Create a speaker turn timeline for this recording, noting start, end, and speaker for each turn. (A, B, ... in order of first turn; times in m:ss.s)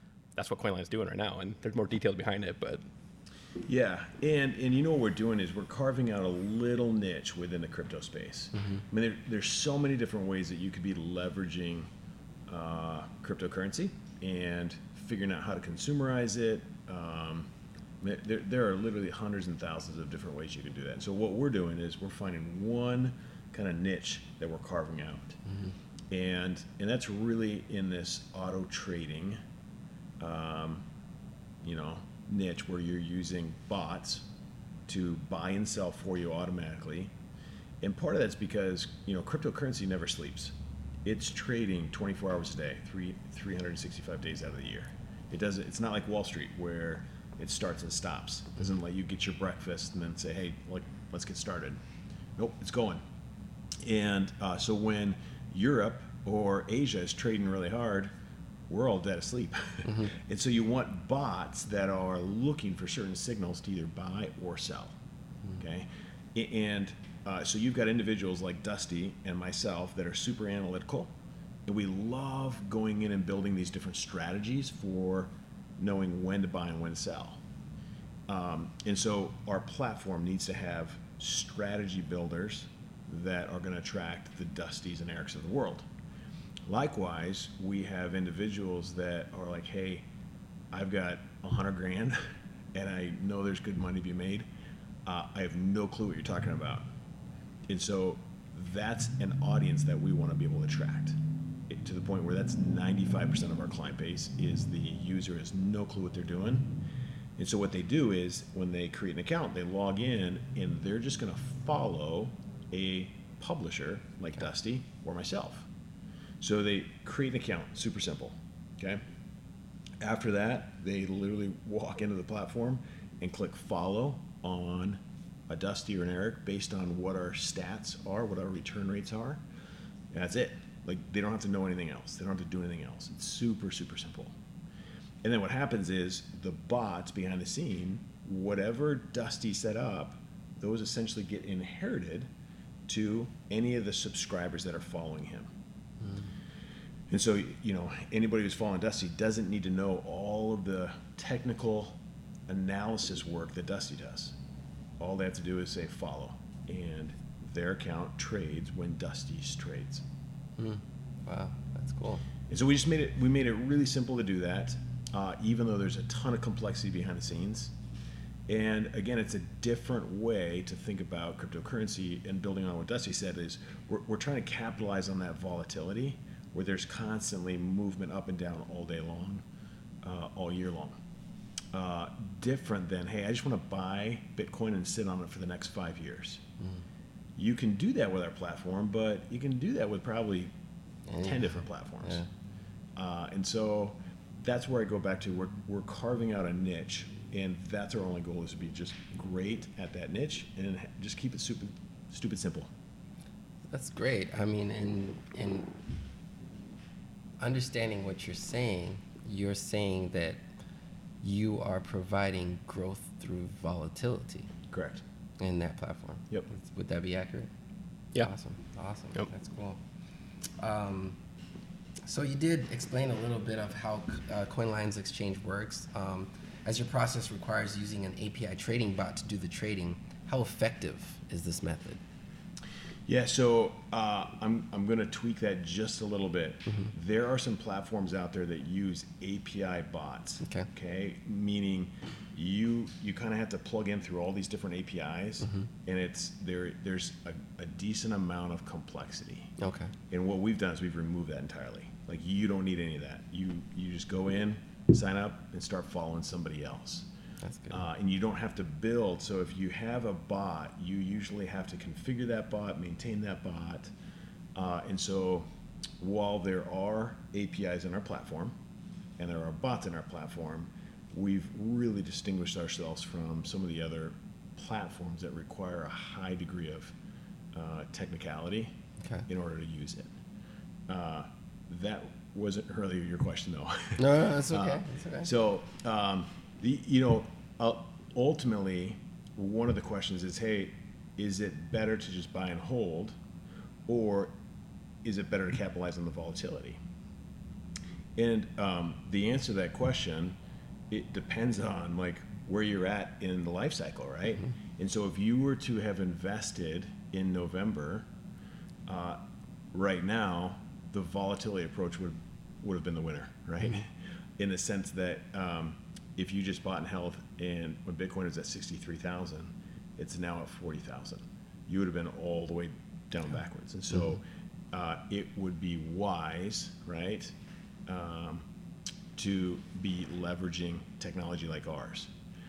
0:00.4-0:02.8 A
0:03.6-0:11.9 B
0:08.5-0:08.8 C
0:12.5-0:25.4 B
0:25.5-0:25.8 C
0:26.1-0:29.4 B
0:30.2-0:30.8 B
0:31.6-0:34.3 B
0:34.9-0:37.1 B
0:37.8-0:51.8 B
0:52.4-0:53.0 B
0:53.8-0:58.1 B
0:58.7-1:05.0 B
0:59.9-1:00.1 C
1:05.6-1:11.1 B
1:11.7-1:17.4 B
1:18.3-1:25.9 B
1:26.6-1:30.1 B
1:30.7-1:32.2 B
1:32.7-1:34.5 B
1:35.1-1:36.9 B
1:37.7-1:41.2 B
1:41.7-1:46.8 B
1:47.4-1:55.7 B
1:56.4-1:59.0 B
2:00.0-2:09.4 B
2:10.1-2:14.4 B
2:15.2-2:22.3 B
2:22.9-2:25.5 B
2:26.0-2:26.3 C
2:27.1-2:34.4 B
2:35.0-2:40.0 B
2:40.6-2:42.2 C
2:42.5-2:47.7 B
2:48.5-2:59.4 B
3:00.0-3:01.0 B
3:01.7-3:06.4 B
3:07.4-3:10.5 B
3:11.1-3:12.3 C
3:11.2-3:12.2 B
3:13.0-3:22.7 B
3:23.7-3:25.8 C
3:27.4-3:30.4 C
3:31.2-3:34.5 C
3:34.7-3:35.0 B
3:35.4-3:37.5 C
3:38.2-3:39.8 C
3:40.6-3:41.2 C
3:42.1-3:52.0 C
3:53.1-4:09.5 B
3:56.7-3:56.9 C
4:00.4-4:00.7 C
4:05.4-4:05.7 C
4:09.6-4:09.9 C
4:10.1-4:17.1 B
4:17.4-4:17.9 C
4:17.7-4:23.9 B
4:24.6-4:28.6 B
4:29.2-4:36.9 B
4:37.5-4:38.7 B
4:39.3-4:40.1 B
4:40.9-4:53.2 B
4:44.0-4:45.3 C
4:53.9-4:54.4 B
4:55.0-4:56.8 B
4:58.2-5:00.4 B
5:00.9-5:08.1 B
5:08.9-5:09.2 B
5:09.7-5:27.3 B
5:27.9-5:28.5 B
5:29.2-5:32.1 B